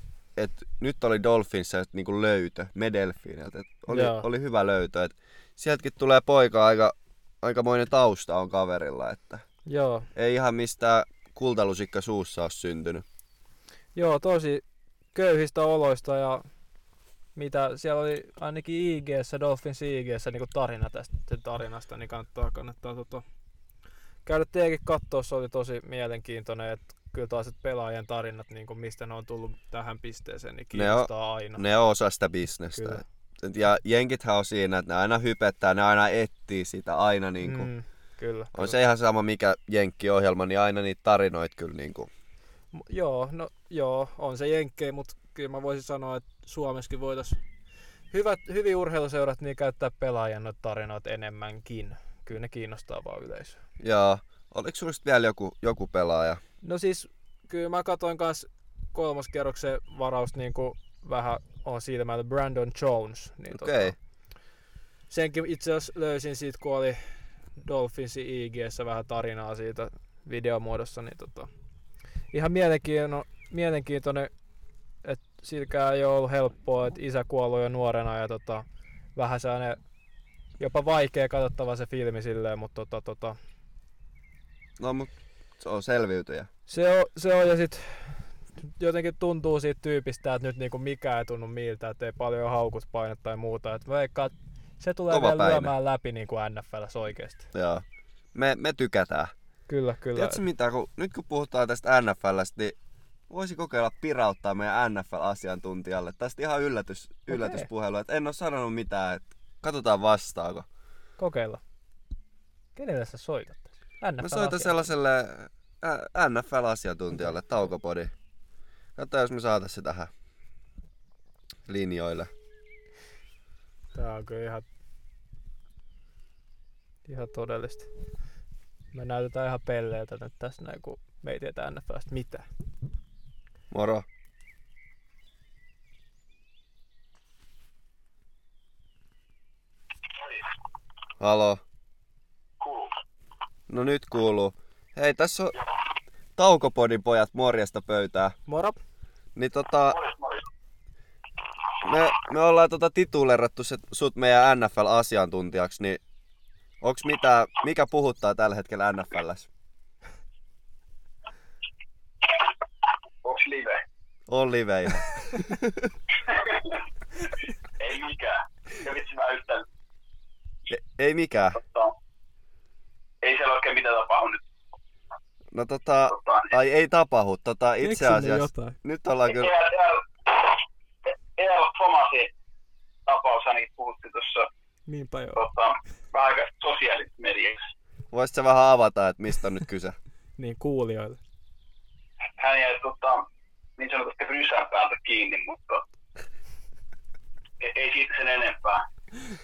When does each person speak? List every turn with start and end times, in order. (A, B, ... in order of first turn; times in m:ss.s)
0:00.4-0:09.4 A
0:03.9-0:04.3 B
0:09.6-0:10.1 B
0:10.1-0:13.0 A
0:13.9-0:14.6 B
0:15.1-0:16.4 B
0:17.4-0:23.2 B
0:24.2-0:31.6 B
0:30.7-0:37.7 A
0:32.7-0:33.0 B
0:37.4-0:38.8 B
0:38.5-0:42.1 A
0:42.7-0:47.4 B
0:48.1-0:53.6 B
0:53.8-0:56.4 A
0:56.6-1:04.0 B
1:03.5-1:03.9 A
1:05.1-1:11.5 B
1:12.3-1:14.3 B
1:15.0-1:19.8 B
1:20.6-1:23.4 B
1:24.8-1:26.5 A
1:26.7-1:37.5 B
1:35.1-1:35.7 A
1:37.5-1:39.3 A
1:39.7-1:40.4 B
1:40.1-1:42.8 A
1:43.3-1:50.6 A
1:47.3-1:47.7 B
1:51.2-1:51.6 B
1:52.7-1:54.9 B
1:54.2-1:58.1 A
1:59.0-2:00.1 A
2:01.7-2:02.3 A
2:03.9-2:04.6 B
2:07.0-2:07.9 B
2:08.9-2:12.5 B
2:13.7-2:14.0 A
2:21.2-2:21.6 A
2:22.6-2:22.9 C
2:23.7-2:25.5 A
2:26.4-2:28.3 A
2:28.5-2:28.8 B
2:29.4-2:30.0 A
2:29.9-2:30.4 C
2:31.8-2:36.0 A
2:36.8-2:39.5 A
2:43.2-2:43.8 C
2:44.3-2:45.9 A
2:46.2-2:49.6 C
2:50.7-2:51.6 A
2:51.6-2:51.9 C
2:53.2-2:54.4 C
2:55.5-2:59.5 A
2:56.1-2:56.5 C
2:57.8-2:58.8 B
2:59.3-3:00.6 C
3:01.4-3:02.3 C
3:03.1-3:04.5 C
3:04.9-3:05.4 B
3:05.4-3:07.6 C
3:08.1-3:10.0 A
3:10.4-3:11.2 B
3:12.4-3:13.2 C
3:13.8-3:15.8 C
3:17.6-3:18.8 C